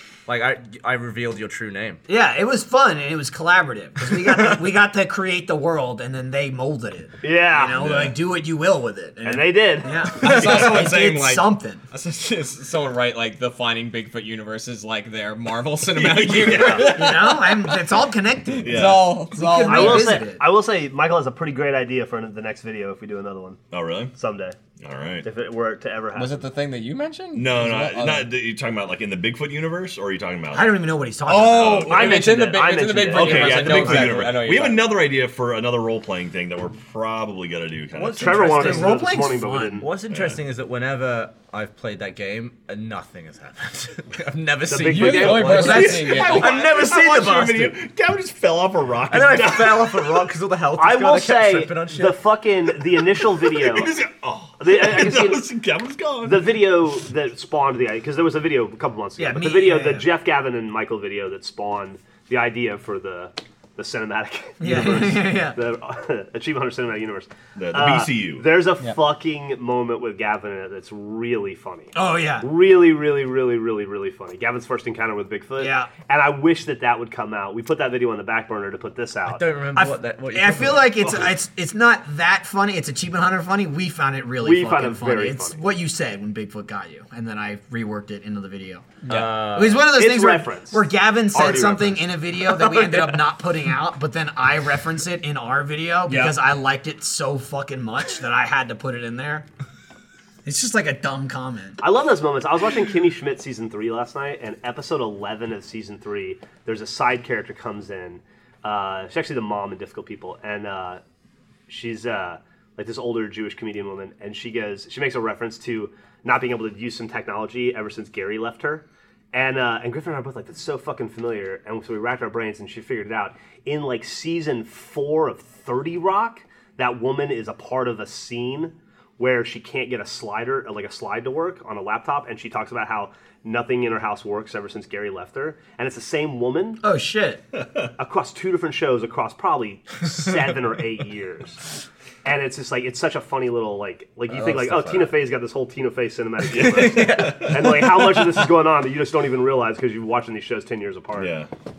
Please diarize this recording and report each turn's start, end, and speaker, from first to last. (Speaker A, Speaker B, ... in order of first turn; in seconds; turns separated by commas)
Speaker A: 0.3-2.0, Speaker B: 2.1-11.8, Speaker A: 4.0-4.5, Speaker C: 7.2-8.0, Speaker D: 7.7-8.1, Speaker C: 9.2-10.0, Speaker E: 10.1-17.8, Speaker D: 10.3-10.5, Speaker D: 15.9-17.2, Speaker B: 16.8-20.4, Speaker E: 18.6-20.2, Speaker D: 18.6-19.3, Speaker C: 19.6-23.6, Speaker D: 23.7-24.1, Speaker C: 24.1-24.6, Speaker D: 24.8-25.3, Speaker C: 25.2-26.5, Speaker E: 26.1-28.3, Speaker D: 27.3-30.9, Speaker B: 30.5-32.1, Speaker E: 31.3-34.9, Speaker D: 31.5-32.2, Speaker C: 31.9-34.3, Speaker D: 33.1-38.8, Speaker B: 38.0-39.8, Speaker C: 38.0-39.9, Speaker A: 39.8-47.8, Speaker D: 40.1-40.4, Speaker C: 44.7-46.0, Speaker E: 44.9-46.6, Speaker D: 45.5-50.2, Speaker A: 49.1-52.2, Speaker C: 50.8-53.9, Speaker D: 53.4-56.5, Speaker C: 54.6-55.5, Speaker C: 56.2-79.4, Speaker B: 59.2-60.1, Speaker B: 64.6-65.6, Speaker D: 67.5-68.5, Speaker B: 71.9-72.5, Speaker B: 75.6-75.9, Speaker A: 79.2-81.2, Speaker B: 79.7-89.0, Speaker C: 84.4-85.6, Speaker E: 89.0-89.4, Speaker A: 89.1-89.9, Speaker B: 89.5-99.5, Speaker C: 89.8-92.0, Speaker A: 92.5-93.2, Speaker E: 96.1-96.4, Speaker B: 100.4-101.8, Speaker C: 101.8-111.0, Speaker C: 111.7-136.8, Speaker B: 136.8-137.4, Speaker D: 137.5-137.9, Speaker C: 138.0-141.7, Speaker C: 142.2-151.3, Speaker A: 144.3-145.1, Speaker D: 146.5-147.8, Speaker A: 146.5-148.5, Speaker D: 151.2-151.5